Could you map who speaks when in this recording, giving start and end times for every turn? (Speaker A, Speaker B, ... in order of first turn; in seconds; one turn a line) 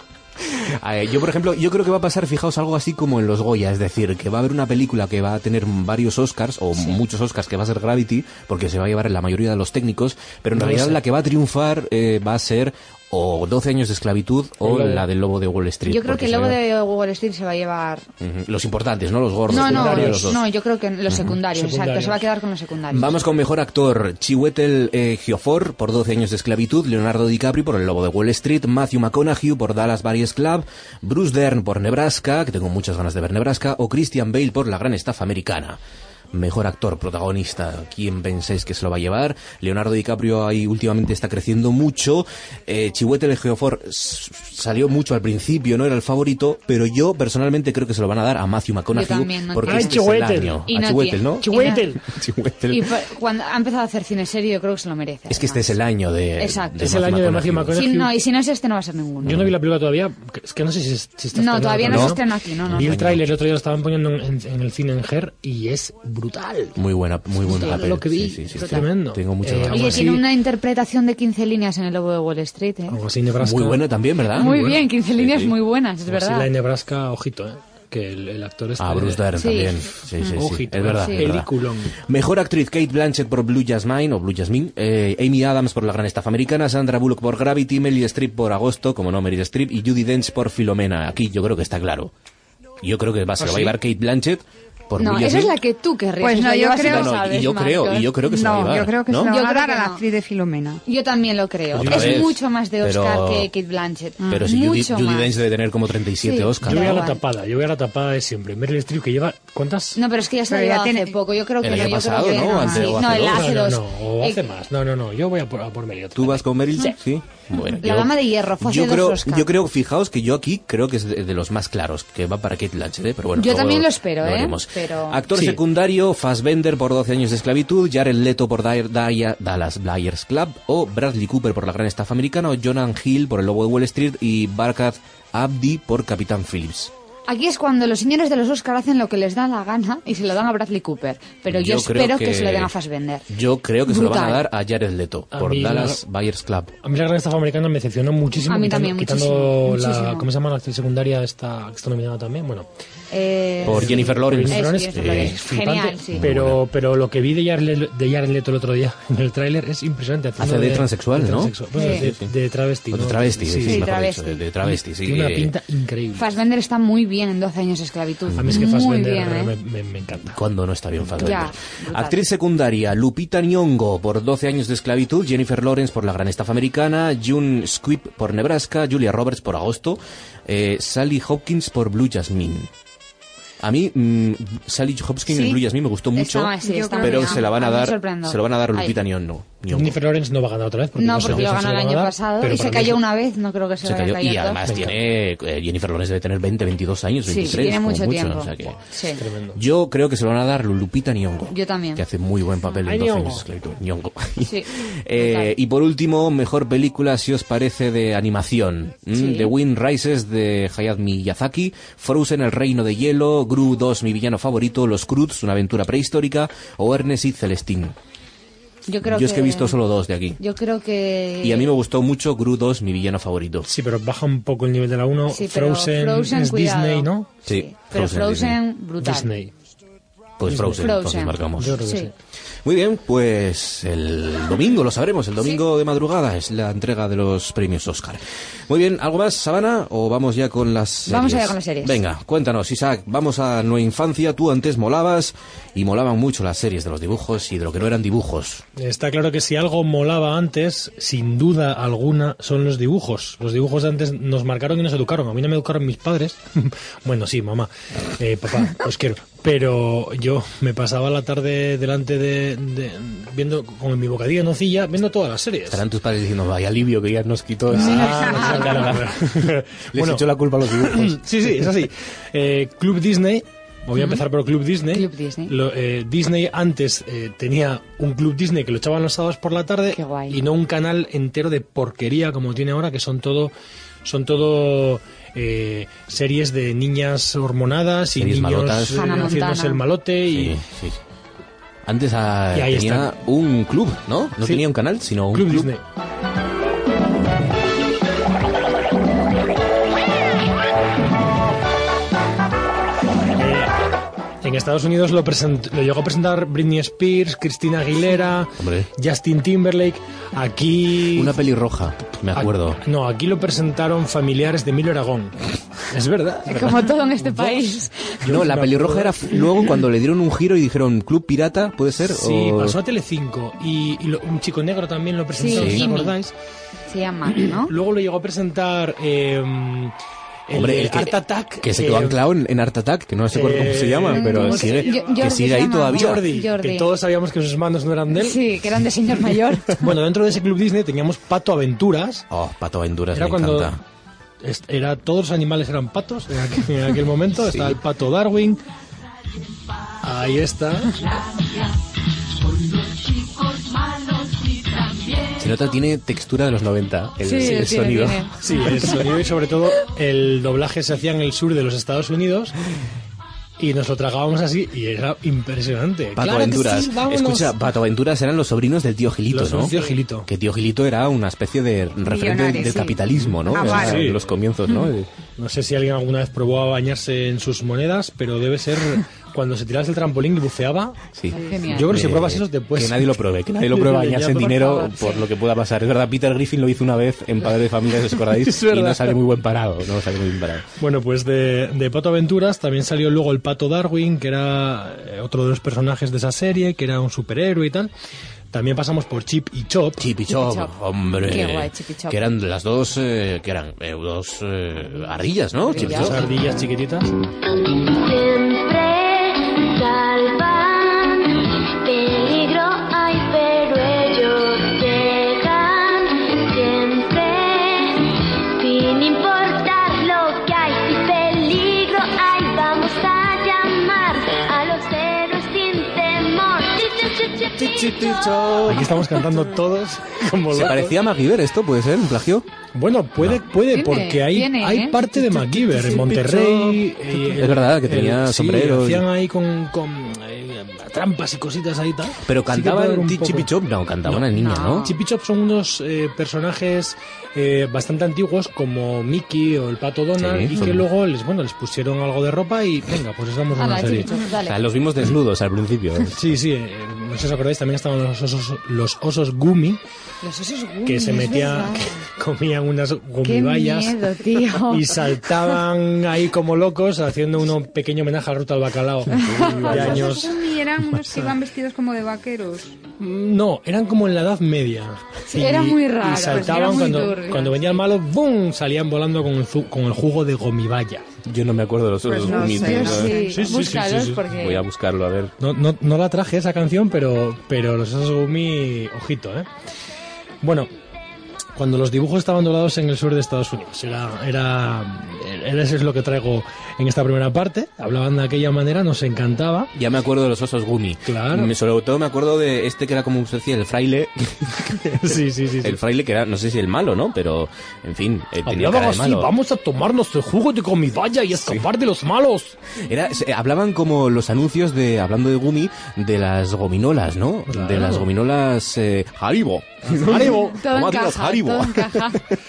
Speaker A: 0.4-16.6
Speaker B: 10.6-11.0
Speaker B: 14.6-15.0
Speaker C: 15.9-18.1
Speaker A: 18.2-20.4
Speaker B: 19.5-20.4
Speaker C: 19.5-23.2
Speaker A: 21.1-21.3
Speaker B: 21.5-22.2
Speaker A: 22.9-35.8
Speaker A: 36.3-52.9
Speaker C: 48.9-50.0
Speaker B: 49.6-50.6
Speaker C: 50.6-51.8
Speaker B: 51.4-52.0
Speaker C: 52.7-55.7
Speaker A: 55.3-57.8
Speaker C: 56.4-56.8
Speaker B: 56.8-58.1
Speaker C: 57.7-59.4
Speaker A: 59.2-59.5
Speaker B: 59.2-66.8
Speaker C: 61.3-63.0
Speaker A: 61.8-63.2
Speaker A: 66.8-70.2
Speaker B: 67.5-70.2
Speaker C: 67.5-67.8
Speaker C: 68.6-68.8
Speaker C: 69.7-73.0
Speaker B: 72.9-74.8
Speaker A: 73.4-75.5
Speaker C: 74.3-76.5
Speaker B: 76.1-79.2
Speaker A: 78.8-92.1
Speaker C: 79.3-80.4
Speaker B: 80.3-82.0
Speaker C: 80.9-81.2
Speaker A: 92.8-95.5
Speaker B: 93.4-93.7
Speaker C: 95.0-100.0
Speaker D: 96.2-97.2
Speaker A: 96.8-99.3
Speaker D: 98.2-100.8
Speaker C: 100.8-105.3
Speaker A: 101.7-103.5
Speaker B: 101.8-102.2
Speaker A: 104.3-107.1
Speaker C: 106.2-107.2
Speaker B: 106.6-110.0
Speaker C: 110.0-114.4
Speaker D: 110.5-111.1
Speaker A: 111.6-113.5
Speaker D: 111.9-113.0
Speaker B: 113.0-116.4
Speaker A: 116.1-136.9
Speaker C: 117.6-119.5
Speaker C: 123.4-125.2
Speaker C: 137.3-143.2
Speaker A: 141.5-142.7
Speaker A: 143.3-146.7
Speaker C: 143.9-144.4
Speaker B: 145.3-146.0
Speaker B: 146.8-152.7
Speaker C: 148.4-150.2
Speaker C: 153.1-156.2
Speaker B: 153.6-163.9
Speaker A: 153.6-155.4
Speaker A: 156.1-156.6
Speaker A: 160.4-162.3
Speaker C: 161.8-162.1
Speaker A: 162.9-165.5
Speaker C: 163.6-164.4
Speaker B: 164.7-166.3
Speaker C: 166.2-169.5
Speaker A: 168.3-168.7
Speaker B: 168.4-170.4
Speaker A: 170.3-182.7
Speaker C: 171.2-172.2
Speaker A: 183.6-190.0
Speaker C: 186.1-189.0
Speaker D: 186.6-187.5
Speaker B: 189.7-193.0
Speaker C: 190.9-194.6
Speaker A: 191.2-191.5
Speaker A: 193.8-198.8
Speaker B: 194.7-195.0
Speaker C: 197.3-199.2
Speaker B: 199.2-199.6
Speaker A: 199.5-217.9
Speaker C: 201.5-202.0
Speaker B: 202.8-203.4
Speaker C: 204.4-205.5
Speaker C: 209.1-209.5
Speaker C: 218.9-219.8
Speaker A: 219.0-220.4
Speaker C: 220.4-221.7
Speaker A: 221.4-223.7
Speaker B: 223.7-227.3
Speaker C: 225.3-229.3
Speaker A: 227.4-228.6
Speaker B: 229.0-229.5
Speaker A: 230.4-231.8
Speaker B: 230.5-230.9
Speaker C: 230.7-232.1
Speaker B: 231.6-232.1
Speaker A: 232.6-248.6
Speaker C: 241.1-242.0
Speaker B: 248.8-265.8
Speaker A: 265.7-271.2
Speaker B: 267.7-283.5
Speaker C: 267.7-269.0
Speaker C: 274.9-275.5
Speaker C: 279.9-280.4
Speaker B: 284.0-290.6
Speaker A: 288.1-289.3
Speaker C: 288.9-289.8
Speaker A: 290.3-291.0
Speaker A: 291.8-295.7
Speaker B: 292.5-293.1
Speaker B: 295.3-295.8
Speaker B: 303.4-303.7
Speaker B: 304.4-311.3
Speaker A: 308.6-308.9
Speaker A: 311.1-312.8
Speaker B: 312.4-315.3
Speaker B: 315.9-317.7
Speaker C: 316.5-318.2
Speaker B: 318.2-319.4
Speaker A: 318.2-322.8
Speaker B: 322.1-326.3
Speaker C: 325.4-326.1
Speaker A: 325.5-325.9
Speaker C: 326.9-327.7
Speaker B: 327.6-329.9
Speaker B: 330.5-332.2
Speaker A: 330.5-336.3
Speaker B: 333.3-338.4
Speaker C: 334.1-336.9
Speaker C: 338.1-339.8
Speaker B: 339.8-342.2
Speaker A: 342.3-343.8
Speaker B: 343.1-343.8
Speaker B: 344.4-348.6
Speaker A: 347.4-347.8
Speaker B: 350.0-350.9
Speaker A: 355.4-358.3
Speaker C: 357.2-359.0
Speaker B: 358.4-362.6
Speaker B: 363.6-367.5
Speaker A: 366.1-369.7
Speaker B: 369.3-370.3
Speaker A: 370.3-375.1
Speaker D: 372.0-374.1
Speaker B: 373.4-374.2
Speaker B: 375.4-381.1
Speaker A: 381.1-390.7
Speaker D: 381.3-381.6
Speaker C: 381.4-382.0
Speaker B: 381.6-384.7
Speaker C: 384.6-385.2
Speaker B: 388.3-389.2
Speaker B: 390.8-397.9
Speaker B: 398.5-400.0
Speaker A: 400.0-406.3
Speaker C: 400.3-402.2
Speaker C: 405.7-406.2
Speaker B: 405.8-407.1
Speaker E: 407.4-428.5
Speaker B: 427.9-430.9
Speaker A: 428.2-428.9
Speaker A: 430.5-432.5
Speaker B: 432.7-443.5
Speaker C: 433.7-435.8
Speaker A: 435.8-439.0
Speaker A: 442.2-444.9
Speaker C: 444.3-444.9
Speaker B: 444.8-454.2
Speaker A: 450.2-450.8
Speaker C: 453.5-454.6
Speaker A: 454.4-456.2
Speaker B: 456.1-459.8
Speaker C: 460.2-462.0
Speaker B: 460.8-470.4
Speaker C: 463.2-465.1
Speaker A: 469.1-470.1
Speaker C: 469.1-469.8
Speaker D: 469.7-472.8
Speaker B: 473.0-481.0
Speaker C: 475.3-477.6
Speaker D: 476.1-477.1
Speaker A: 481.2-485.3
Speaker D: 482.0-483.5
Speaker C: 482.2-484.6
Speaker B: 483.2-484.2
Speaker B: 485.4-489.5
Speaker B: 490.4-490.7
Speaker B: 491.5-499.7
Speaker A: 499.7-509.3
Speaker B: 501.1-501.5
Speaker B: 504.8-505.8
Speaker B: 508.4-512.5
Speaker A: 512.8-522.2
Speaker B: 517.5-518.1
Speaker B: 519.9-520.6
Speaker C: 520.4-522.3